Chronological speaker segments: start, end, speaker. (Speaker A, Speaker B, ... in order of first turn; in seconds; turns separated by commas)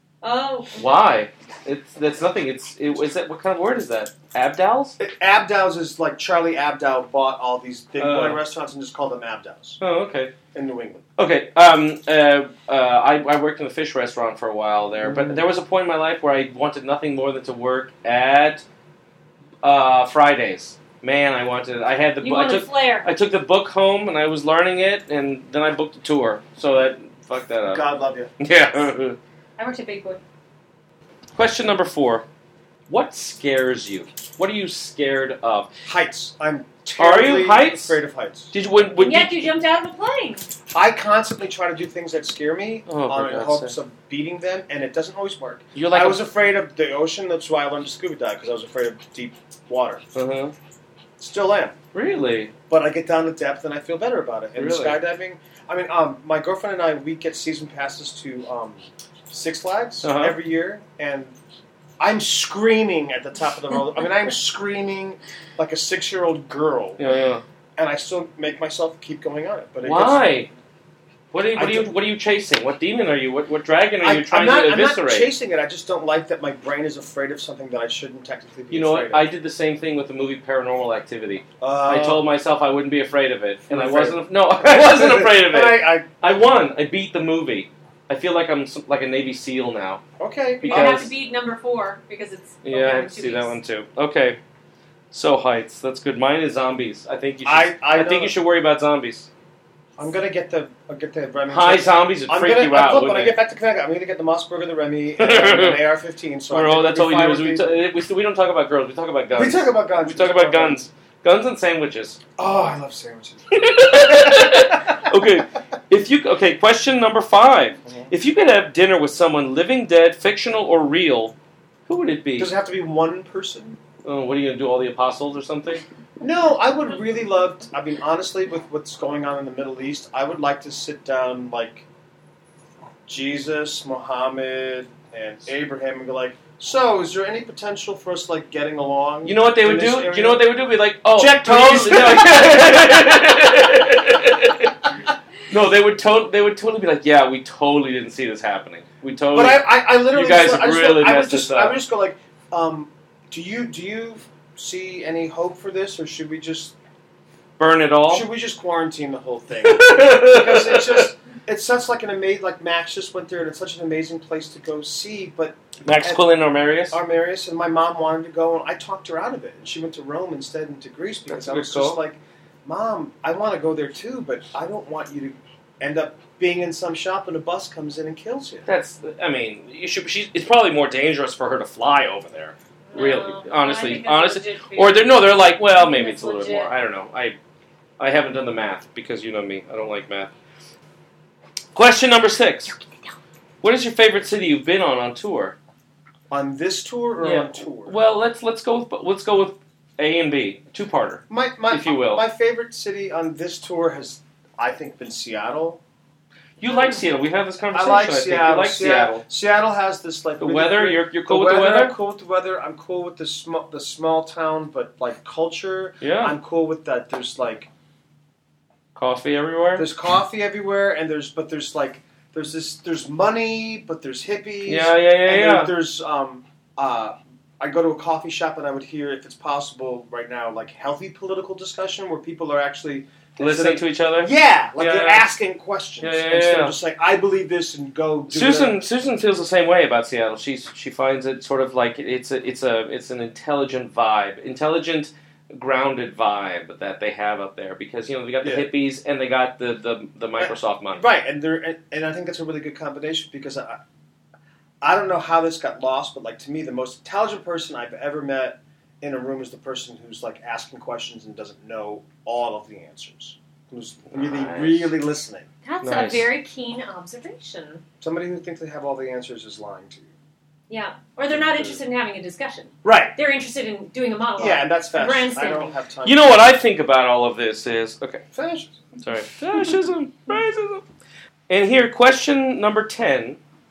Speaker A: 0.2-1.0, Speaker B: 0.8-5.0, Speaker C: 5.0-9.8, Speaker B: 8.0-8.4, Speaker B: 9.8-10.3, Speaker C: 10.5-11.0, Speaker B: 11.2-18.6, Speaker C: 15.0-15.4, Speaker B: 19.6-27.8, Speaker A: 22.2-23.1, Speaker C: 27.7-28.3, Speaker B: 28.4-29.2, Speaker A: 29.6-30.2, Speaker B: 31.3-32.2, Speaker B: 32.9-35.7, Speaker C: 35.9-38.5, Speaker B: 37.0-38.0, Speaker B: 38.5-39.4, Speaker A: 39.0-40.5, Speaker C: 40.7-50.0, Speaker B: 42.9-43.7, Speaker B: 45.7-46.2, Speaker B: 50.1-50.5, Speaker C: 51.2-51.8, Speaker B: 51.9-52.5, Speaker C: 52.7-61.4, Speaker B: 54.5-55.0, Speaker B: 60.0-60.4, Speaker C: 62.0-67.0, Speaker B: 67.0-67.4, Speaker C: 67.8-70.3, Speaker B: 69.8-70.5, Speaker B: 71.3-75.3, Speaker C: 71.5-71.9, Speaker C: 74.0-79.3, Speaker B: 78.7-90.0, Speaker C: 81.6-82.3, Speaker C: 83.7-86.1, Speaker C: 90.2-91.0, Speaker B: 90.6-91.1, Speaker A: 90.6-93.5, Speaker B: 92.6-94.4, Speaker B: 95.1-99.3, Speaker C: 97.4-98.3, Speaker C: 100.0-107.8, Speaker B: 101.5-103.3, Speaker B: 105.2-105.8, Speaker B: 106.5-112.2, Speaker C: 109.3-110.8, Speaker C: 112.4-115.1, Speaker B: 113.5-121.3, Speaker C: 117.8-118.1, Speaker B: 121.9-122.5, Speaker C: 122.4-123.8, Speaker B: 124.0-125.8, Speaker C: 126.2-131.8, Speaker C: 133.1-140.5, Speaker B: 139.2-144.7, Speaker C: 141.1-143.8, Speaker B: 145.5-151.8, Speaker C: 149.3-156.7, Speaker B: 157.6-158.2, Speaker C: 158.1-166.2, Speaker B: 159.6-161.1, Speaker B: 165.8-167.0, Speaker C: 166.9-178.7, Speaker B: 171.3-172.0, Speaker B: 178.7-187.4, Speaker A: 182.9-186.7, Speaker B: 188.0-190.3, Speaker B: 191.7-192.7, Speaker B: 193.6-195.6, Speaker C: 196.3-197.9, Speaker B: 197.2-202.2, Speaker C: 201.3-205.8, Speaker B: 206.6-209.2, Speaker C: 207.7-217.7, Speaker B: 210.4-211.9, Speaker B: 216.0-216.3, Speaker B: 218.9-219.8, Speaker C: 219.8-238.8, Speaker B: 224.6-225.7, Speaker B: 233.4-235.2, Speaker B: 236.0-236.7, Speaker B: 238.3-251.0, Speaker C: 248.4-248.7, Speaker C: 250.4-253.8, Speaker C: 254.8-265.5, Speaker B: 264.1-264.9, Speaker A: 265.6-267.8, Speaker B: 265.8-266.3, Speaker C: 268.0-270.1, Speaker A: 270.7-275.7, Speaker C: 272.8-273.1, Speaker C: 274.4-276.4, Speaker B: 276.0-278.2, Speaker C: 278.3-278.8, Speaker B: 279.0-280.8, Speaker B: 281.5-283.4